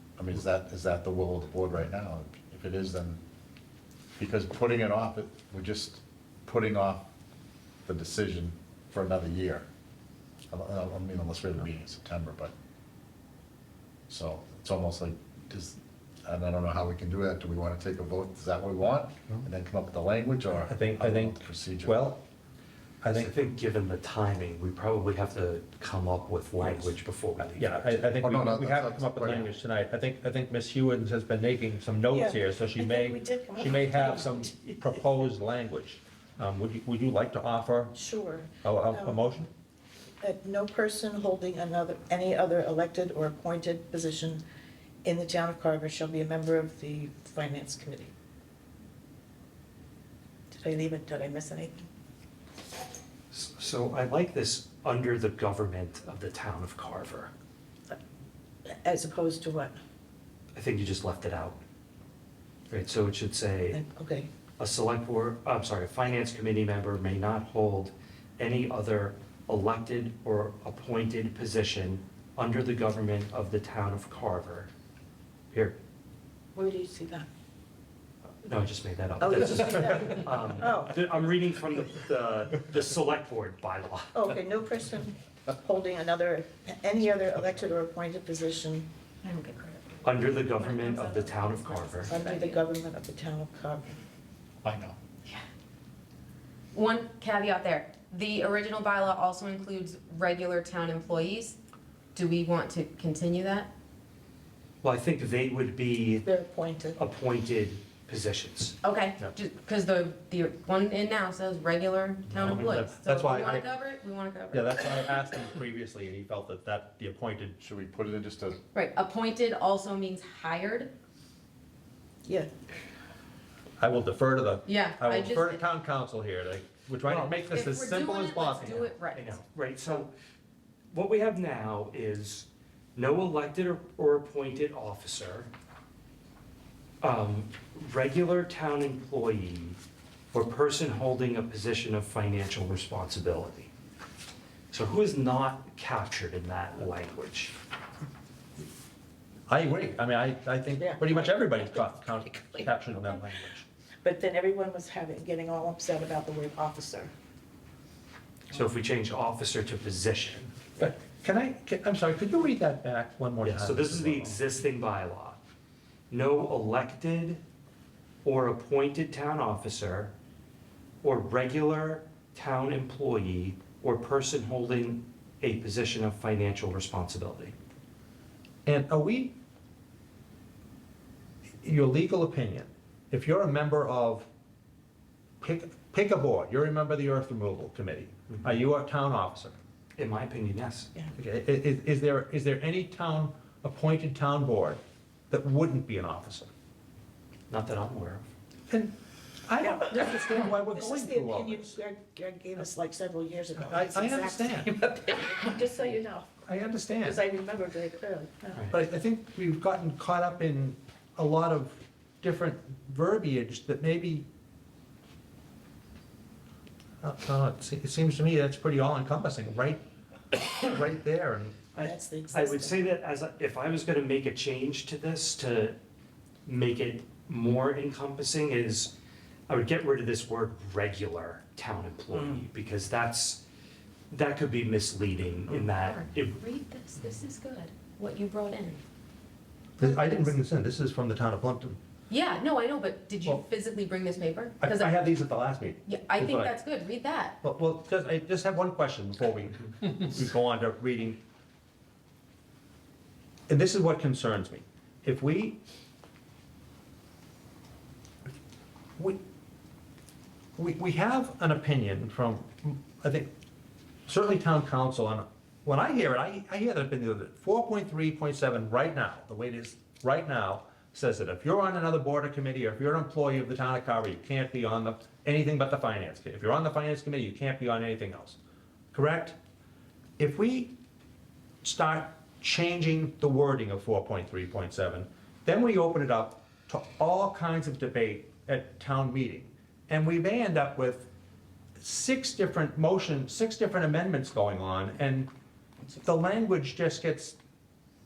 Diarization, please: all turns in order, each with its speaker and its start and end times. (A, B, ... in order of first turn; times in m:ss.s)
0:00.2-0:03.2 A
0:04.2-0:07.0 A
0:07.8-0:09.6 A
0:10.5-0:12.5 A
0:14.1-0:22.0 A
0:20.6-0:22.2 B
0:23.0-0:23.4 B
0:23.1-0:28.1 C
0:26.8-0:37.9 B
0:28.2-0:29.5 A
0:32.1-0:34.5 D
0:37.9-0:39.2 D
0:38.6-0:39.5 B
0:40.2-0:44.4 D
0:45.0-0:48.1 D
0:50.5-0:51.9 D
0:53.3-0:57.3 C
0:58.6-0:59.8 D
1:00.5-1:01.6 C
1:02.7-1:03.8 C
1:03.7-1:04.3 D
1:04.6-1:14.7 C
1:15.5-1:15.8 C
1:16.5-1:17.3 D
1:18.4-1:24.3 C
1:19.2-1:20.9 D
1:24.1-1:31.0 D
1:30.0-1:32.2 C
1:30.8-1:31.3 E
1:32.0-1:34.0 D
1:32.1-1:32.6 E
1:34.6-1:35.0 A
1:36.7-1:41.6 E
1:42.1-1:43.7 E
1:44.8-1:46.2 C
1:46.2-1:47.0 D
1:47.0-1:48.8 C
1:48.8-1:54.8 E
1:52.3-1:53.7 B
1:54.5-1:57.6 B
1:57.6-1:58.6 A
1:58.7-2:00.9 E
2:02.2-2:02.5 D
2:03.8-2:08.9 B
2:04.6-2:05.6 E
2:07.0-2:07.5 C
2:07.5-2:09.4 E
2:09.1-2:10.1 C
2:10.9-2:15.5 C
2:17.0-2:19.8 C
2:20.3-2:23.7 C
2:24.7-2:27.5 C
2:29.5-2:33.6 B
2:30.8-2:32.7 D
2:34.0-2:37.1 D
2:38.5-2:40.6 C
2:40.8-2:44.4 B
2:43.4-2:45.4 C
2:46.1-2:47.4 C
2:48.2-2:50.1 C
2:51.0-2:57.5 C
2:58.6-2:59.4 B
3:01.6-3:04.3 B
3:05.4-3:09.5 B
3:10.0-3:10.9 C
3:11.2-3:16.5 B
3:17.5-3:18.3 C
3:18.7-3:21.7 B
3:19.6-3:26.3 D
3:23.6-3:24.7 B
3:26.4-3:27.2 B
3:27.0-3:28.7 D
3:28.7-3:34.2 B
3:37.0-3:39.8 B
3:40.3-3:41.7 B
3:41.8-3:45.8 C
3:41.8-3:42.9 D
3:46.4-3:48.9 C
3:49.5-3:53.4 C
3:52.1-3:52.4 D
3:54.1-3:56.3 C
3:55.8-3:58.8 E
3:59.8-4:01.8 B
3:59.8-4:00.3 E
4:02.1-4:04.9 E
4:04.6-4:06.5 B
4:05.8-4:07.4 E
4:07.4-4:11.2 B
4:13.5-4:15.6 B
4:20.6-4:23.3 B
4:24.0-4:38.4 B
4:38.9-4:39.4 B
4:40.2-4:40.7 B
4:41.6-4:51.1 B
4:51.8-4:55.3 B
4:56.0-4:57.4 B